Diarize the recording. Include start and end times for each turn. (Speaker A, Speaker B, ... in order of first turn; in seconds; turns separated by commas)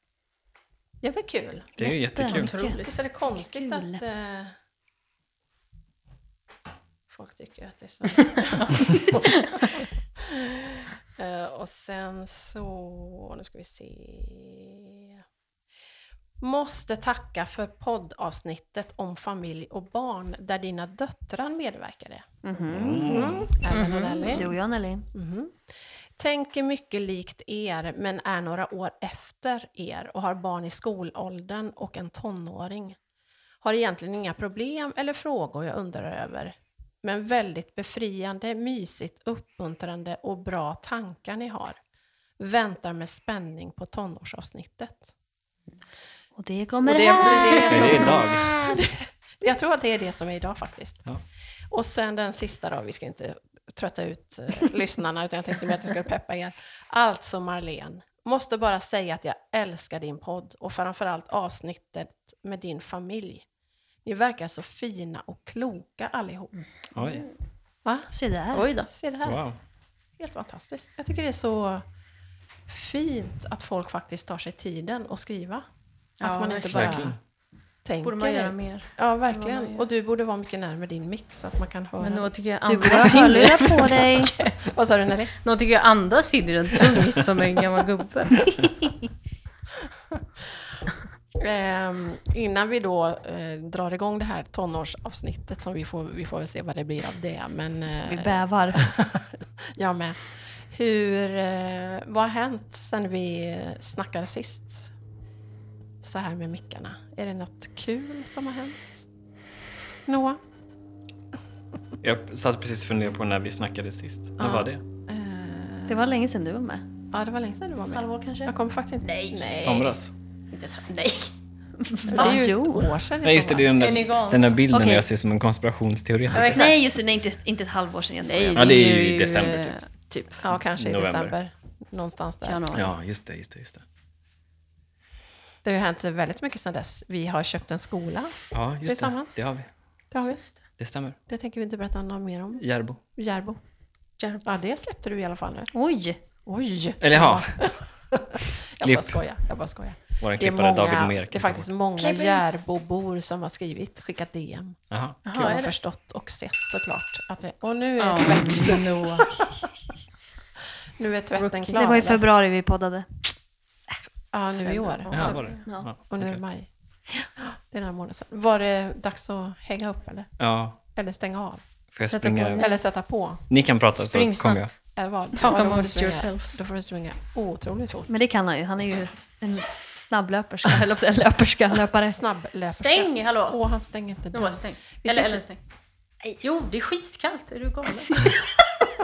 Speaker A: 1.0-1.8, Speaker B: 1.8-2.5, Speaker C: 1.8-4.0, Speaker D: 2.2-2.9, Speaker A: 2.8-4.5, Speaker A: 7.1-9.6, Speaker A: 10.3-15.1, Speaker A: 16.4-22.3, Speaker C: 22.4-23.1, Speaker B: 22.7-23.5, Speaker A: 23.0-24.6, Speaker D: 23.7-24.4, Speaker C: 24.3-25.1, Speaker A: 25.1-25.6, Speaker A: 26.1-33.0, Speaker A: 33.6-41.8, Speaker A: 42.4-45.1, Speaker C: 46.4-48.2, Speaker A: 46.8-51.1, Speaker B: 47.7-48.5, Speaker A: 51.7-63.4, Speaker A: 64.0-66.5, Speaker B: 66.9-67.3, Speaker A: 67.8-69.4, Speaker C: 68.1-68.7, Speaker D: 68.5-68.9, Speaker B: 69.2-69.6, Speaker A: 70.2-71.8, Speaker A: 72.7-75.7, Speaker A: 76.2-77.2, Speaker D: 76.2-77.1, Speaker B: 76.7-77.2, Speaker A: 77.8-83.1, Speaker D: 78.0-79.9, Speaker D: 82.0-84.6, Speaker C: 82.6-84.3, Speaker A: 84.6-85.3, Speaker D: 85.4-88.9, Speaker A: 91.4-104.9, Speaker C: 98.0-98.9, Speaker A: 106.0-108.8, Speaker A: 110.0-110.4, Speaker B: 112.0-114.8, Speaker A: 114.4-116.1, Speaker C: 115.9-116.8, Speaker A: 117.1-120.0, Speaker C: 117.9-118.5, Speaker D: 119.0-119.5, Speaker B: 119.5-120.1, Speaker D: 120.5-121.3, Speaker C: 121.9-123.0, Speaker D: 122.1-122.4, Speaker A: 122.1-123.7, Speaker B: 123.2-126.7, Speaker D: 123.8-124.5, Speaker C: 124.7-125.0, Speaker D: 126.3-127.0, Speaker C: 126.5-128.7, Speaker D: 128.2-130.4, Speaker B: 128.6-129.8, Speaker A: 130.4-132.7, Speaker B: 130.7-131.3, Speaker D: 132.4-132.9, Speaker B: 132.7-133.8, Speaker A: 135.6-139.4, Speaker B: 138.5-139.7, Speaker A: 140.1-140.4, Speaker D: 140.2-140.6, Speaker B: 140.8-141.2, Speaker A: 141.3-143.6, Speaker B: 142.6-143.0, Speaker D: 144.2-144.4, Speaker A: 144.4-145.7, Speaker C: 145.7-146.2, Speaker A: 146.4-159.6, Speaker B: 147.0-147.5, Speaker B: 148.8-149.2, Speaker B: 150.2-151.7, Speaker D: 152.0-152.5, Speaker C: 152.0-152.3, Speaker B: 154.9-155.5, Speaker D: 155.2-155.8, Speaker D: 158.0-159.4, Speaker A: 161.0-162.2, Speaker D: 161.3-162.2, Speaker C: 161.7-163.3, Speaker A: 164.3-166.7, Speaker D: 164.6-165.7, Speaker B: 165.1-166.4, Speaker C: 165.6-165.9, Speaker A: 167.4-171.6, Speaker B: 170.4-170.8, Speaker B: 171.9-172.6, Speaker D: 172.0-172.8, Speaker A: 172.6-173.4, Speaker B: 173.5-174.7, Speaker D: 173.9-176.7, Speaker A: 174.9-178.1, Speaker C: 178.1-182.2, Speaker A: 182.2-185.4, Speaker D: 182.7-183.6, Speaker D: 184.3-185.6, Speaker D: 186.4-188.4